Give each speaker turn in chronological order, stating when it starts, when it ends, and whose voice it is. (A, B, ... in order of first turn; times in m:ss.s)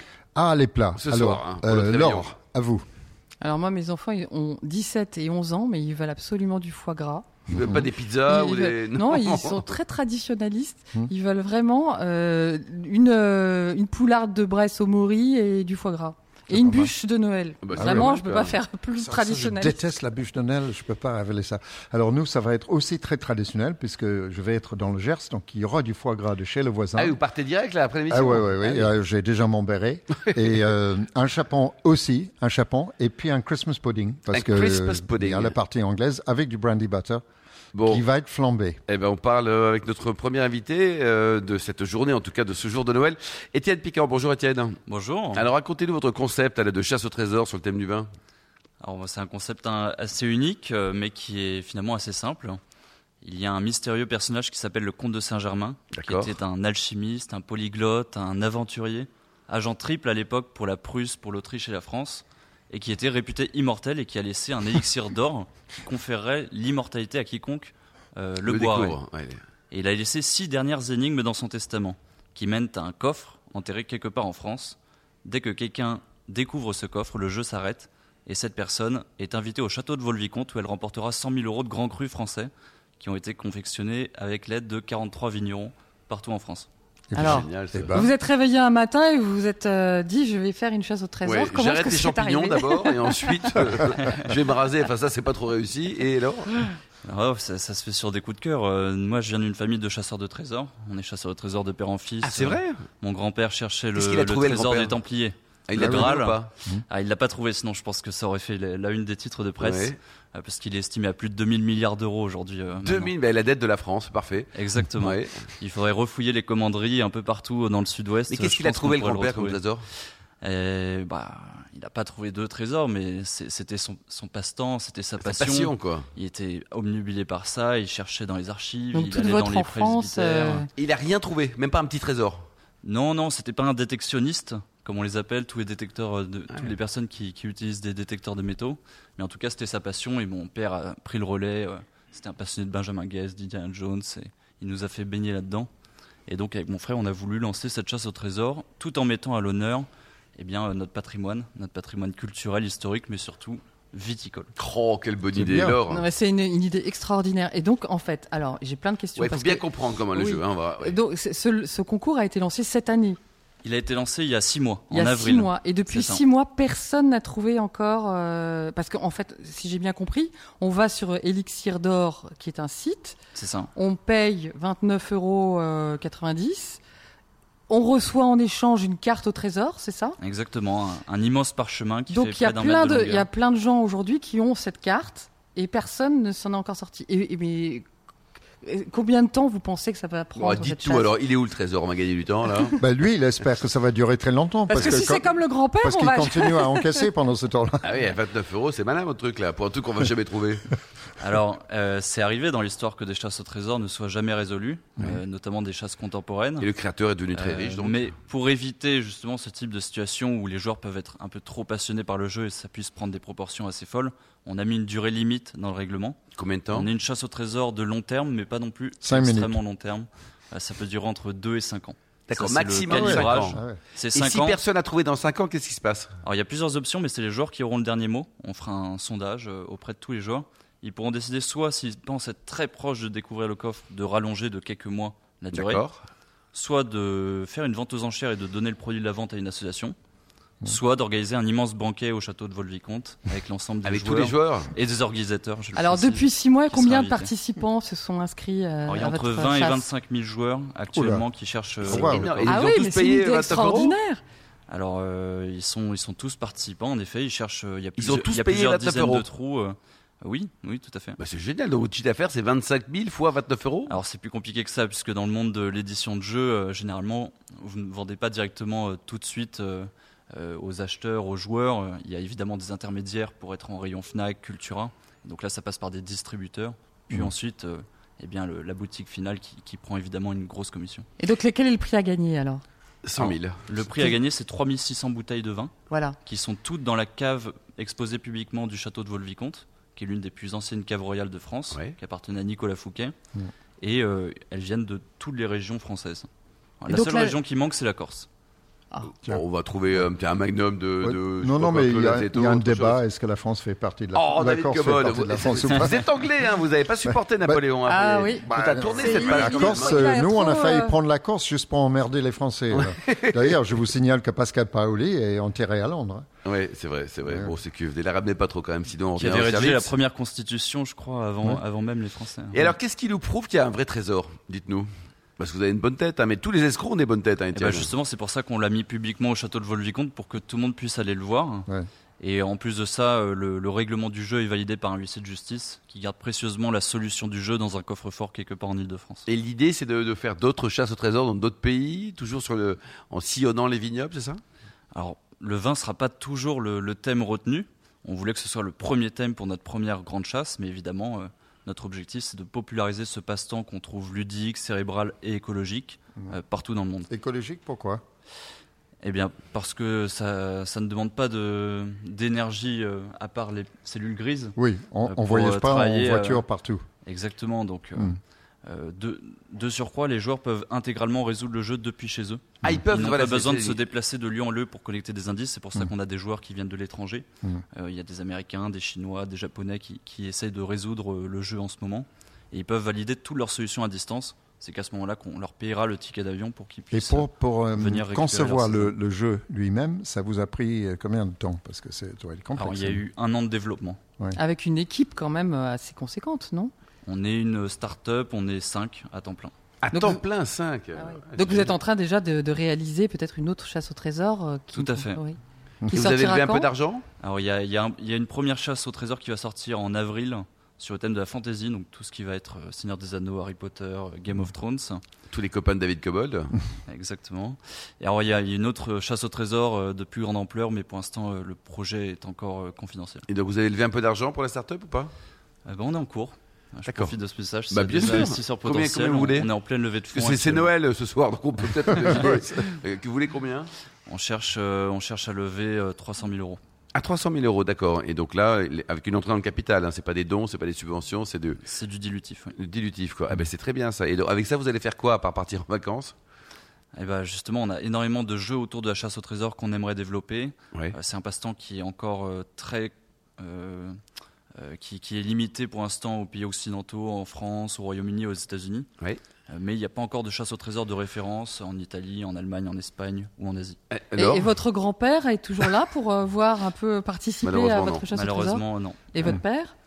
0:00.3-0:02.8 A
0:01.0-0:02.3 B
0:03.4-0:07.5 C
0:07.5-0:07.8 A
0:07.5-0:09.8 B
0:08.2-0:19.8 C
0:16.5-0:16.9 A
0:17.6-0:18.6 B
0:17.8-0:18.2 A
0:19.0-0:27.2 A
0:26.9-0:28.9 B
0:28.1-0:37.2 A
0:34.3-0:35.5 B
0:37.7-0:38.0 B
0:37.8-0:38.8 A
0:38.9-0:44.8 B
0:44.9-0:45.5 D
0:45.3-0:48.1 B
0:48.8-0:52.6 D
0:53.2-1:09.0 D
0:55.9-0:56.3 B
1:08.4-1:09.4 B
1:09.7-1:26.7 D
1:27.1-1:28.1 A
1:27.1-1:33.5 C
1:27.2-1:28.0 B
1:31.2-1:36.7 B
1:37.0-1:53.1 D
1:42.2-1:42.8 B
1:43.9-1:45.0 B
1:45.7-1:46.5 B
1:45.8-1:46.1 A
1:49.6-1:50.0 B
1:52.8-1:55.4 B
1:54.5-1:59.6 D
1:58.3-1:59.8 B
2:00.4-2:10.6 D
2:05.2-2:06.0 B
2:08.9-2:10.7 C
2:10.8-2:12.4 B
2:12.8-2:25.7 D
2:26.3-2:34.5 D
2:34.6-2:36.0 B
2:35.3-2:35.8 A
2:35.9-2:43.2 C
2:39.2-2:41.0 B
2:43.6-2:46.2 D
2:44.9-2:53.2 C
2:53.3-2:53.7 D
2:53.8-2:56.8 C
2:57.7-3:00.2 C
3:00.2-3:03.3 D
3:02.1-3:07.8 C
3:08.6-3:11.2 C
3:10.3-3:12.8 B
3:12.8-3:17.9 A
3:14.7-3:17.1 C
3:17.8-3:20.7 B
3:21.2-3:26.7 D
3:26.6-3:28.1 B
3:27.3-3:36.2 D
3:36.4-3:36.9 B
3:36.7-3:44.6 D
3:39.0-3:39.6 A
3:42.3-3:43.6 B
3:42.9-3:43.8 A
3:44.1-3:46.1 B
3:46.2-3:55.8 D
3:55.5-3:56.0 B
3:56.5-4:00.0 D
4:00.6-4:07.3 D
4:03.8-4:04.7 B
4:05.7-4:09.9 C
4:08.8-4:12.6 D
4:10.9-4:11.2 A
4:11.8-4:14.0 B
4:11.8-4:12.3 A
4:12.4-4:14.2 C
4:14.7-4:21.2 D
4:18.0-4:19.3 B
4:21.2-4:23.9 B
4:23.9-4:41.1 D
4:41.2-4:42.6 C
4:43.0-4:43.6 B
4:43.2-4:53.1 D
4:45.9-4:46.2 C
4:51.7-4:51.9 B
4:53.8-4:56.3 D
4:56.8-4:58.3 D
4:56.9-4:57.3 C
4:59.0-5:03.0 B
5:01.0-5:06.0 A
5:04.1-5:10.2 B
5:07.8-5:10.9 C
5:08.4-5:16.2 A
5:12.7-5:13.5 B
5:16.4-5:19.9 B
5:17.2-5:17.5 A
5:19.1-5:22.7 D
5:22.5-5:27.9 B
5:27.5-5:31.7 D
5:32.2-5:39.2 D
5:39.3-5:44.4 B
5:44.9-5:57.1 D
5:57.1-5:58.0 A
5:59.0-6:04.5 D
6:04.6-6:06.8 A
6:05.0-6:06.4 D
6:07.0-6:28.9 D
6:12.6-6:13.8 B
6:26.9-6:33.0 A
6:32.5-6:34.0 D
6:34.3-6:36.7 C
6:37.0-6:39.5 D
6:39.8-6:41.7 B
6:39.9-6:40.2 C
6:41.0-6:45.4 C
6:44.7-6:45.2 D
6:45.9-6:47.0 B
6:45.9-6:46.7 C
6:47.2-6:55.0 D
6:55.3-6:56.5 B
6:56.9-7:03.2 D
7:03.3-7:05.1 B
7:05.6-7:10.7 D
7:06.9-7:07.2 B
7:07.7-7:09.5 B
7:10.1-7:13.7 B
7:14.1-7:16.6 D
7:16.9-7:21.6 B
7:21.6-7:22.5 D
7:22.6-7:26.1 B
7:26.9-7:34.0 D
7:34.6-7:38.9 D
7:39.5-7:43.8 D
7:43.9-7:44.5 B
7:44.1-7:49.7 C
7:47.4-7:48.1 B
7:48.1-7:49.4 D